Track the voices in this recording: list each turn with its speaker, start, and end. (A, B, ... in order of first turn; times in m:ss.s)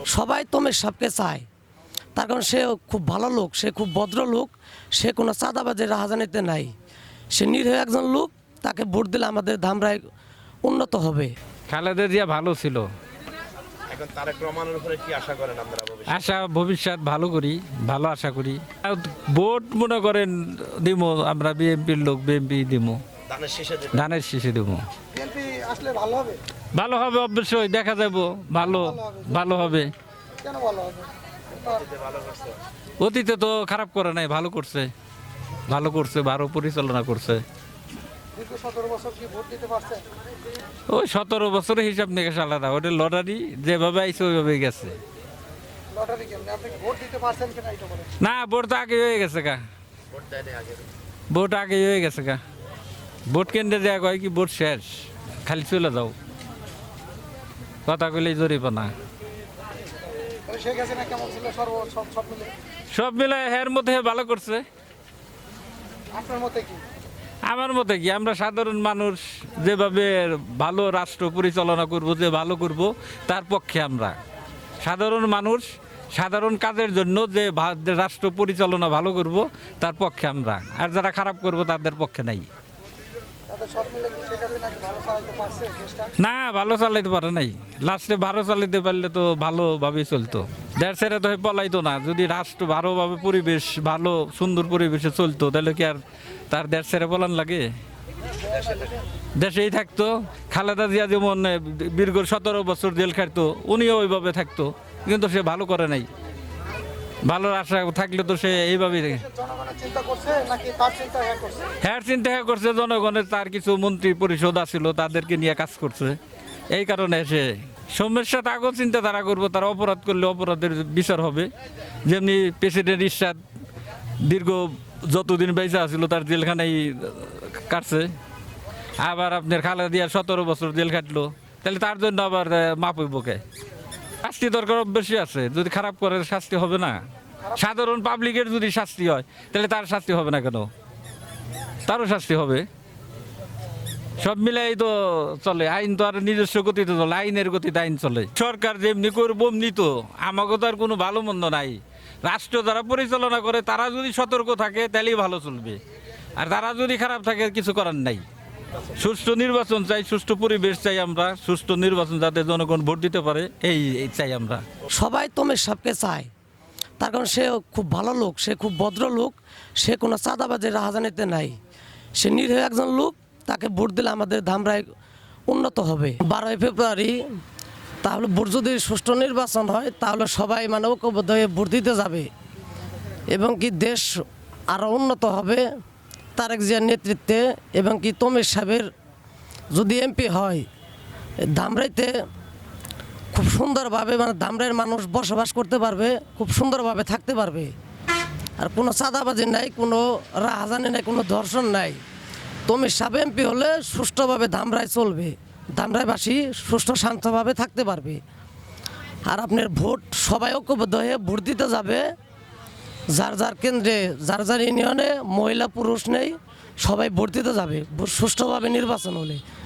0:00.1-0:01.4 A
0:02.1-0:06.7 A
0:07.3-0:10.0 A
0:10.6-0:11.3 A
0:11.7-0:12.9 B
0:13.9-0:16.0 C
0:16.0-0:23.0 B
0:23.3-0:23.9 C
0:23.9-0:24.8 B
0:25.1-0:26.4 D
0:26.7-0:29.9 B
0:28.7-0:29.5 D
0:30.4-0:31.9 D
0:32.0-0:32.4 C
0:33.0-0:34.9 B
0:35.7-0:37.4 B
0:38.3-0:40.0 D
0:40.9-0:45.0 B
0:45.9-0:48.1 D
0:48.2-0:49.6 B
0:50.3-0:50.7 C
0:51.3-0:52.4 B
0:53.3-0:54.9 B
0:55.4-0:56.1 B
0:57.8-0:58.9 B
1:00.4-1:02.5 D
1:02.9-1:04.6 B
1:06.1-1:06.8 D
1:07.4-1:14.2 B
1:14.8-1:22.5 B
1:23.5-1:26.1 D
1:26.2-1:37.7 B
1:39.4-1:46.1 B
1:47.2-1:49.3 B
1:49.3-1:51.7 D
1:51.8-1:56.2 B
1:56.7-2:01.5 B
2:02.0-2:03.4 B
2:04.2-2:08.1 B
2:09.0-2:13.4 B
2:14.2-2:17.0 B
2:17.5-2:20.7 B
2:21.8-2:22.6 B
2:24.2-2:35.8 B
2:36.4-2:38.2 B
2:39.0-2:44.6 B
2:44.9-2:46.3 A
2:47.0-2:51.6 A
2:52.2-2:54.9 A
2:55.5-2:57.2 A
2:58.0-3:02.3 A
3:03.3-3:04.1 A
3:04.7-3:05.6 A
3:06.4-3:08.9 A
3:09.7-3:10.6 A
3:11.5-3:12.1 A
3:13.3-3:17.7 A
3:18.6-3:22.0 A
3:22.7-3:28.2 A
3:29.2-3:32.0 A
3:33.1-3:39.4 A